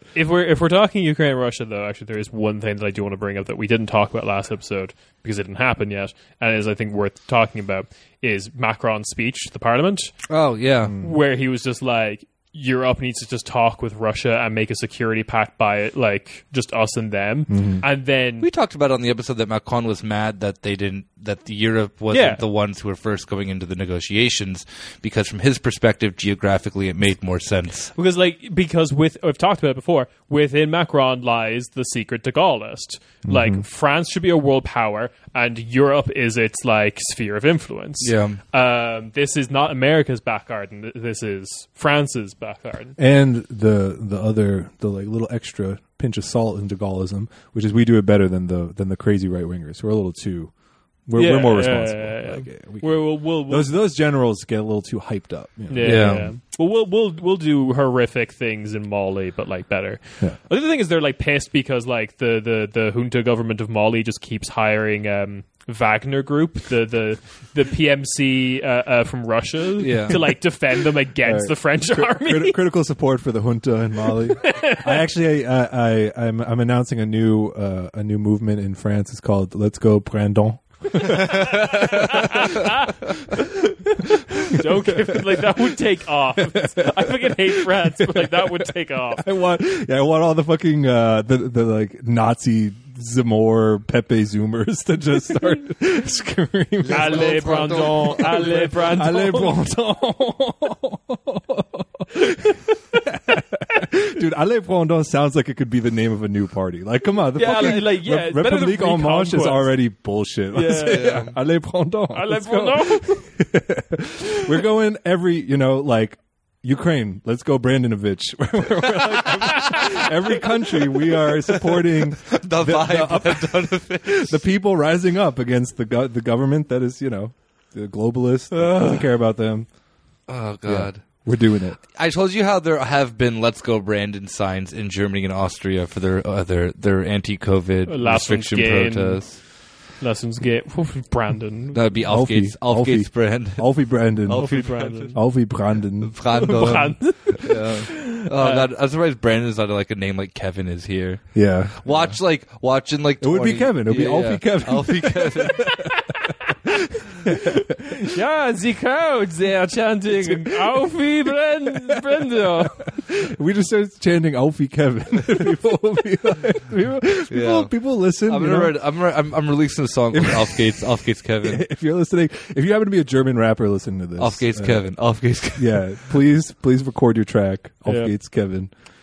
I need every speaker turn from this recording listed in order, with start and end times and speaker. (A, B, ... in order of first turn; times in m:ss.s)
0:00.2-0:10.1 A
0:10.3-0:11.0 B
0:11.0-0:18.5 A
0:17.5-0:17.8 C
0:18.4-0:27.9 B
0:22.1-0:22.4 A
0:28.0-0:43.0 A
0:33.2-0:33.6 C
0:38.0-0:38.4 B
0:43.0-0:50.5 C
0:51.1-0:56.3 C
0:51.2-0:53.7 A
0:55.7-1:12.6 A
0:55.8-0:56.3 B
1:09.8-1:10.2 B
1:11.2-1:22.7 C
1:14.4-1:15.0 A
1:21.0-1:29.2 A
1:21.2-1:22.3 B
1:24.0-1:25.8 C
1:26.4-2:09.7 C
1:36.8-1:38.9 B
1:36.9-1:39.6 A
1:47.4-1:49.8 A
1:50.5-1:51.3 A
1:50.8-1:51.4 B
1:52.1-1:53.2 A
1:59.4-1:59.8 B
2:01.5-2:04.4 B
2:10.3-2:11.0 B
2:10.7-2:11.8 C
2:11.9-2:19.4 B
2:17.9-2:19.4 A
2:20.0-2:21.8 A
2:21.7-2:25.2 B
2:22.1-2:24.5 C
2:24.4-2:25.2 A
2:25.1-2:26.2 C
2:26.0-2:31.3 B
2:26.3-2:28.7 A
2:31.3-2:32.1 C
2:31.8-2:35.8 B
2:33.2-2:38.1 C
2:37.4-2:42.9 A
2:40.1-2:41.0 C
2:41.7-2:48.8 C
2:47.3-2:47.7 B
2:48.2-2:51.6 B
2:50.1-2:50.9 C
2:51.4-2:54.8 C
2:54.2-2:55.8 B
2:55.6-2:58.7 C
2:57.9-2:58.1 A